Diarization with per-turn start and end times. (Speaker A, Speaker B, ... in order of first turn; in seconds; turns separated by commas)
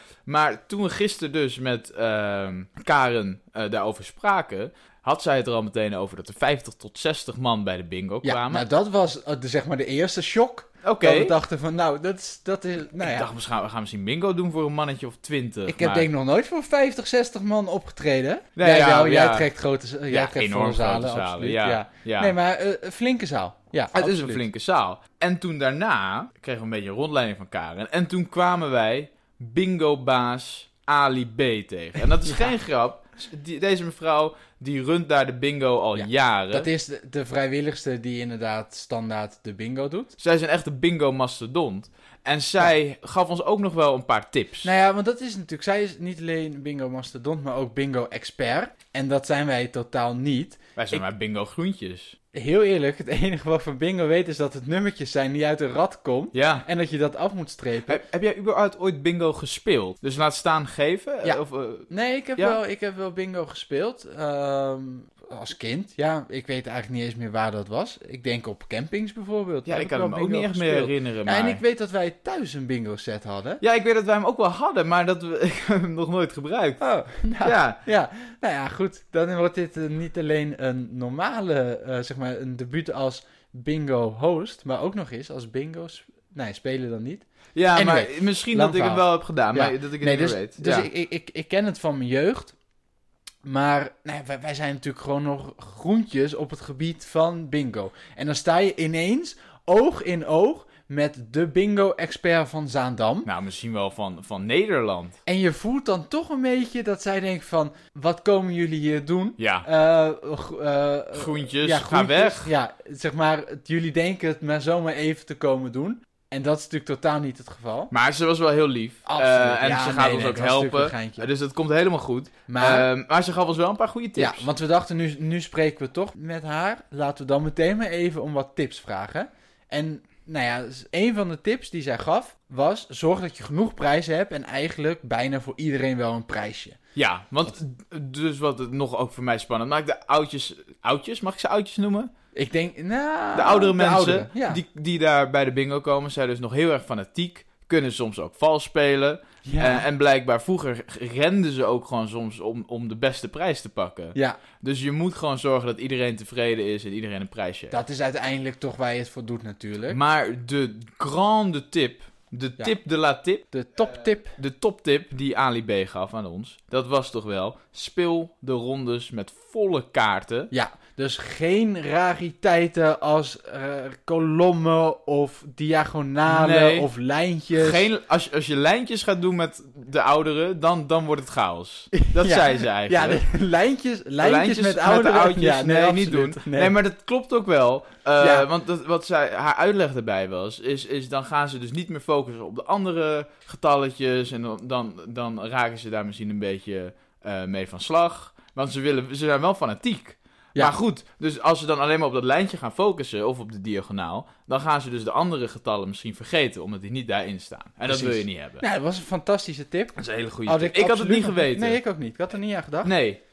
Speaker A: 0.3-8.6, Speaker B: 8.2-13.3, Speaker A: 10.8-11.3, Speaker A: 13.0-16.1, Speaker B: 15.7-24.4, Speaker A: 18.6-19.5, Speaker A: 20.1-22.3, Speaker A: 23.9-36.7, Speaker B: 32.2-32.6, Speaker B: 36.0-40.1, Speaker A: 40.2-44.7, Speaker B: 44.6-51.0, Speaker A: 50.8-52.2, Speaker B: 52.3-58.0, Speaker A: 56.3-56.6, Speaker A: 57.9-62.6, Speaker B: 61.2-73.6, Speaker A: 69.7-71.6, Speaker A: 73.6-76.8, Speaker B: 76.8-92.6, Speaker A: 77.4-77.8, Speaker A: 87.5-90.9, Speaker B: 93.4-103.3, Speaker A: 103.2-105.2, Speaker B: 105.2-117.9, Speaker A: 109.4-109.7, Speaker A: 111.1-112.5, Speaker A: 117.9-124.5, Speaker B: 119.1-121.3, Speaker B: 122.5-122.9, Speaker B: 124.2-136.8, Speaker A: 136.9-142.1, Speaker B: 142.3-144.6, Speaker A: 143.3-157.8, Speaker B: 149.4-149.9, Speaker B: 157.7-160.0, Speaker A: 159.9-163.4, Speaker B: 163.5-164.4, Speaker A: 164.3-170.5, Speaker B: 170.5-177.9, Speaker A: 176.3-176.9, Speaker A: 177.5-183.2, Speaker B: 181.9-186.7, Speaker A: 184.2-208.6, Speaker B: 188.2-188.5, Speaker B: 207.9-212.9, Speaker A: 210.0-211.8, Speaker A: 212.8-213.2